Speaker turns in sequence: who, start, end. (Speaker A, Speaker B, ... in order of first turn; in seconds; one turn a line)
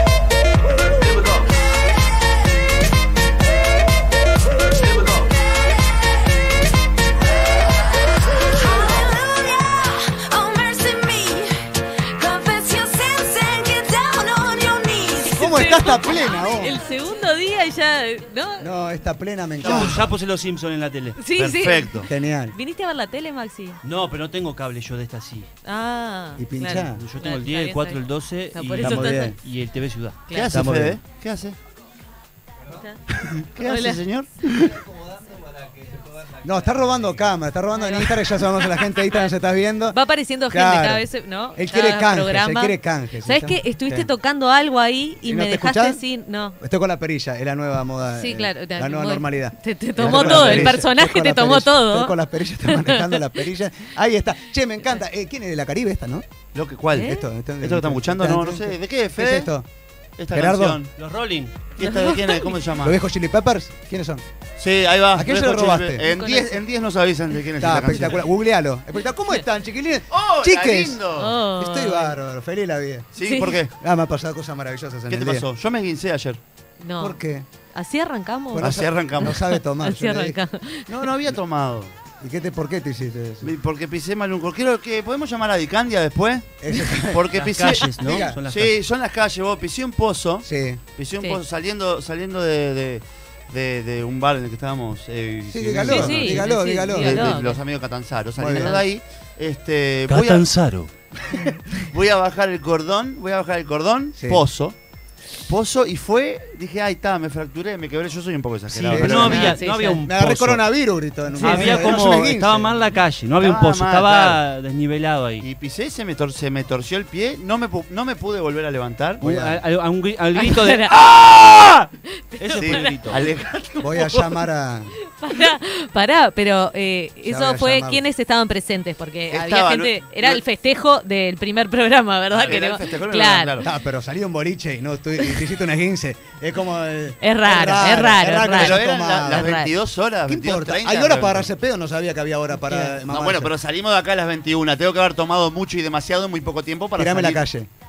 Speaker A: 8.6-18.7
Speaker B: 15.3-16.8
Speaker B: 18.6-20.1
Speaker C: 19.6-20.0
Speaker D: 19.7-21.2
Speaker A: 21.2-23.8
Speaker C: 21.3-22.1
Speaker B: 22.1-22.6
Speaker D: 23.8-25.5
Speaker A: 25.6-29.4
Speaker B: 26.4-27.1
Speaker D: 27.0-30.8
Speaker B: 28.8-29.4
Speaker A: 30.3-30.6
Speaker C: 30.3-31.6
Speaker B: 30.5-31.0
Speaker C: 33.1-34.9
Speaker A: 33.6-34.0
Speaker B: 36.4-44.1
Speaker A: 37.7-39.3
Speaker A: 39.9-46.6
Speaker B: 45.2-46.0
Speaker B: 46.6-56.3
Speaker A: 48.1-53.4
Speaker C: 50.0-50.8
Speaker C: 56.5-59.5
Speaker A: 57.0-57.3
Speaker B: 57.0-59.7
Speaker C: 60.2-60.9
Speaker B: 60.3-60.8
Speaker D: 61.0-61.6
Speaker C: 61.8-63.0
Speaker A: 61.8-62.6
Speaker B: 62.8-64.2
Speaker C: 64.6-68.3
Speaker B: 65.2-66.0
Speaker A: 66.0-66.6
Speaker B: 67.6-71.0
Speaker C: 70.1-71.4
Speaker A: 71.2-72.2
Speaker B: 71.6-73.1
Speaker C: 73.1-73.7
Speaker A: 73.2-73.6
Speaker B: 73.8-75.5
Speaker C: 75.1-76.4
Speaker A: 76.8-77.2
Speaker B: 77.0-77.5
Speaker A: 77.7-81.1
Speaker B: 78.5-80.4
Speaker C: 78.6-79.4
Speaker C: 80.9-81.9
Speaker B: 82.2-83.5
Speaker C: 83.4-100.5
Speaker B: 86.6-88.4
Speaker D: 87.3-88.8
Speaker B: 90.4-90.8
Speaker B: 95.5-97.4
Speaker A: 95.8-97.6
Speaker B: 98.4-98.8
Speaker D: 100.1-100.9
Speaker C: 101.7-104.8
Speaker B: 104.2-104.4
Speaker C: 105.5-109.6
Speaker B: 108.7-112.7
Speaker A: 109.1-110.0
Speaker D: 109.1-110.6
Speaker D: 111.4-115.5
Speaker A: 111.5-111.7
Speaker C: 113.4-114.4
Speaker C: 115.4-119.2
Speaker B: 119.2-119.6
Speaker D: 119.2-121.9
Speaker A: 120.3-121.1
Speaker A: 122.1-123.2
Speaker D: 122.4-123.2
Speaker C: 122.6-124.4
Speaker B: 123.8-124.9
Speaker A: 125.1-133.7
Speaker B: 127.2-128.0
Speaker C: 129.3-130.4
Speaker C: 132.3-133.7
Speaker B: 133.6-139.6
Speaker A: 137.2-139.7
Speaker C: 138.5-141.5
Speaker B: 140.3-143.6
Speaker A: 142.6-142.9
Speaker C: 143.1-147.5
Speaker B: 147.0-147.7